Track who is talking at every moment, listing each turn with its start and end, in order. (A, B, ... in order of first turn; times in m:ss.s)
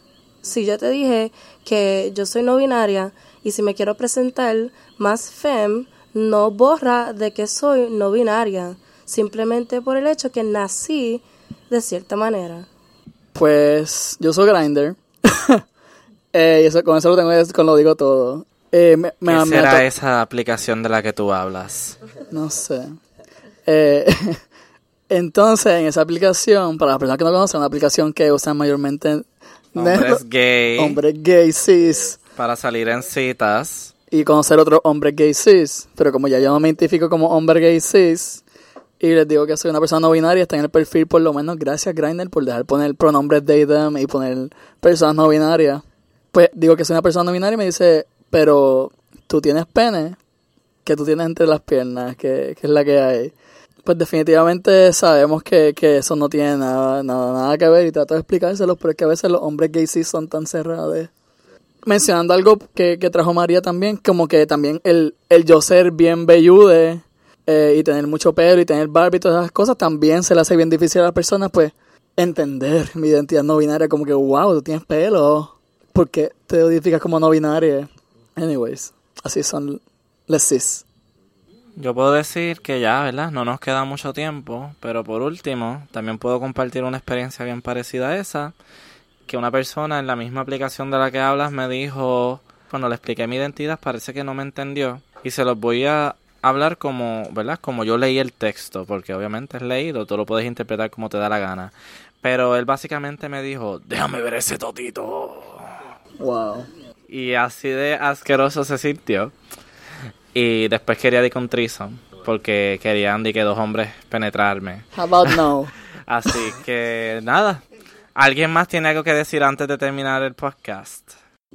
0:00.4-0:12.7 A
0:13.3-0:15.6 B
0:16.3-0:19.8 B
0:19.2-0:22.0 C
0:22.3-0:23.0 B
0:23.6-0:24.4 B
0:25.1-0:30.2 B
0:29.7-0:31.0 C
0:30.8-0:32.2 B
0:32.4-0:33.9 C
0:34.1-0:38.4 B
0:39.0-0:50.2 B
0:50.8-0:53.3 B
0:53.8-1:01.1 B
1:01.8-1:20.8 B
1:21.8-1:28.5 C
1:29.3-1:45.7 C
1:46.2-1:46.7 B
1:47.1-1:49.3 C
1:50.3-1:55.4 C
1:54.9-1:55.7 B
1:56.1-1:57.6 C
1:58.2-2:01.1 C